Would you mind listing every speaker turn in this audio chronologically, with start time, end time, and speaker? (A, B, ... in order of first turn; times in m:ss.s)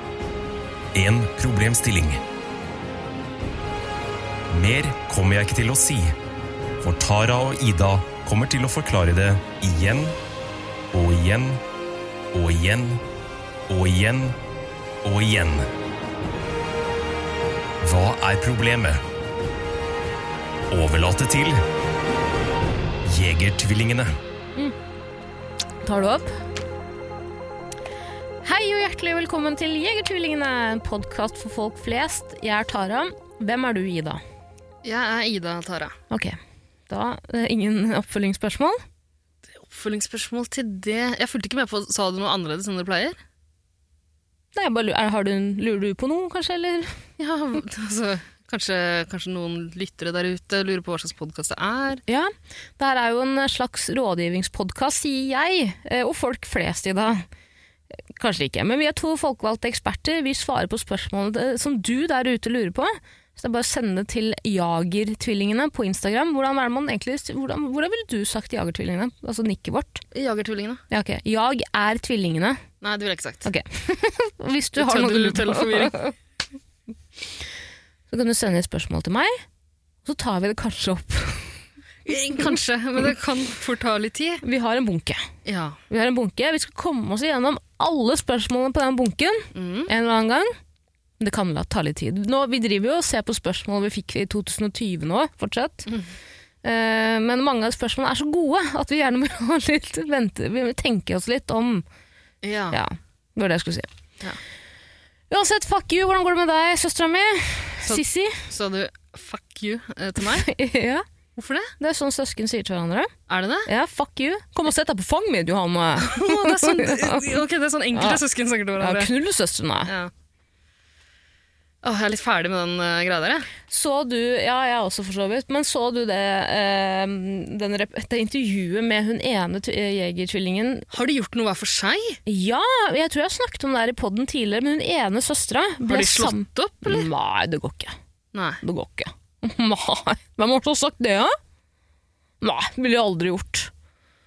0:00.9-0:02.2 A
0:04.5-0:06.1 A
0:06.8-0:10.2 A
0:10.9-0:11.6 A
0:12.3-0:13.0 A
0:13.7-0:14.4 A
0:15.0-0:15.7 A
0:17.8-0:19.0 A
0:20.7-0:21.6 A
0:23.0-0:24.1 A
0:25.8-0:26.3 B
0:28.4-0:34.2 B
0:34.8-0:36.0 C
0:36.1-0:36.4 B
0:36.9-0:38.8 B
0:39.5-0:43.2 C
0:44.6-0:47.0 B
0:47.2-0:52.0 C
0:52.1-0:57.3 B
0:58.1-1:10.0 B
1:10.1-1:10.8 C
1:10.9-1:12.6 B
1:12.8-1:13.5 C
1:13.4-1:16.1 B
1:14.8-1:16.0 C
1:18.1-1:19.4 B
1:20.0-1:21.6 B
1:22.1-1:24.4 C
1:24.4-1:25.3 B
1:25.4-1:25.8 C
1:25.9-1:30.6 B
1:29.5-1:29.9 C
1:31.2-1:35.9 B
1:36.6-1:41.8 B
1:42.4-1:42.8 C
1:42.7-1:43.9 B
1:45.3-1:48.4 B
1:47.9-1:50.5 C
1:50.3-1:51.0 B
1:51.4-1:51.7 C
1:51.8-1:53.1 B
1:53.3-1:53.7 C
1:53.7-1:57.3 B
1:56.0-1:59.1 C
1:57.9-1:58.2 B
1:58.8-1:59.9 B
2:01.8-2:03.5 C
2:03.7-2:10.9 B
2:10.9-2:12.2 C
2:12.3-2:18.0 B
2:15.9-2:17.1 C
2:18.3-2:18.6 C
2:18.6-2:21.4 B
2:22.4-2:23.7 B